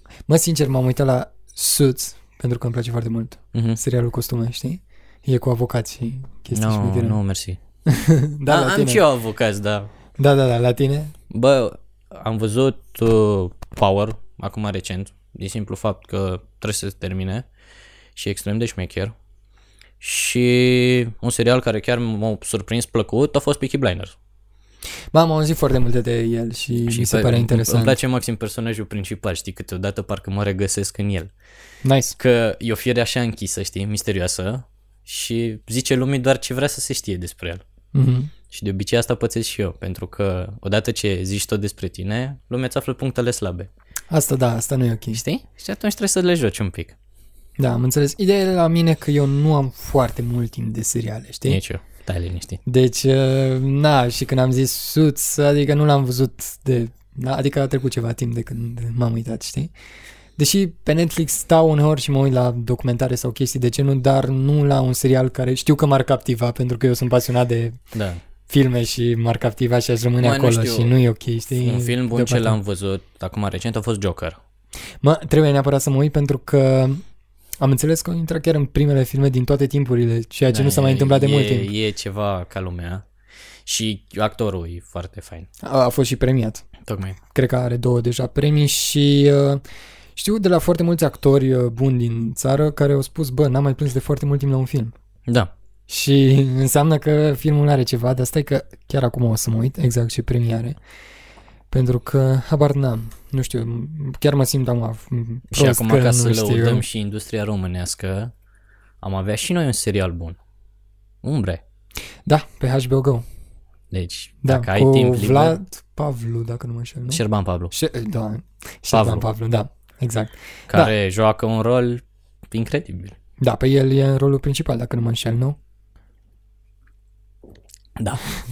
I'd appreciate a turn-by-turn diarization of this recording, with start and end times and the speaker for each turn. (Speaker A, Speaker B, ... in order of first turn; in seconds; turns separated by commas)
Speaker A: 0.3-7.2, Speaker B: 3.5-3.8, Speaker B: 6.5-7.6, Speaker A: 7.9-9.0, Speaker B: 8.5-9.9, Speaker A: 10.2-11.1, Speaker B: 11.3-17.5, Speaker B: 18.2-19.1, Speaker B: 20.0-24.2, Speaker A: 25.1-28.0, Speaker B: 26.9-31.3, Speaker A: 31.8-32.2, Speaker B: 32.2-37.6, Speaker A: 37.9-38.3, Speaker B: 38.5-43.7, Speaker A: 44.1-45.2, Speaker B: 45.1-47.0, Speaker A: 47.6-51.6, Speaker B: 51.5-52.6, Speaker A: 52.7-59.7, Speaker A: 60.4-67.8, Speaker B: 67.9-68.2, Speaker A: 68.5-72.6, Speaker B: 70.2-70.9, Speaker B: 71.6-74.4, Speaker A: 75.0-77.0, Speaker A: 77.6-81.7, Speaker B: 80.5-83.0, Speaker B: 83.7-85.5, Speaker A: 85.6-86.7, Speaker B: 86.8-87.2, Speaker A: 87.3-89.6, Speaker A: 90.2-94.9, Speaker B: 95.3-95.5, Speaker A: 95.9-100.8, Speaker A: 101.7-106.8, Speaker B: 105.5-108.3, Speaker B: 109.0-110.4, Speaker B: 111.2-111.6, Speaker A: 112.2-113.2, Speaker B: 113.9-115.6, Speaker A: 114.4-120.9, Speaker B: 117.1-117.7, Speaker B: 118.9-119.3, Speaker B: 120.7-123.2, Speaker A: 123.4-125.6, Speaker B: 128.0-128.3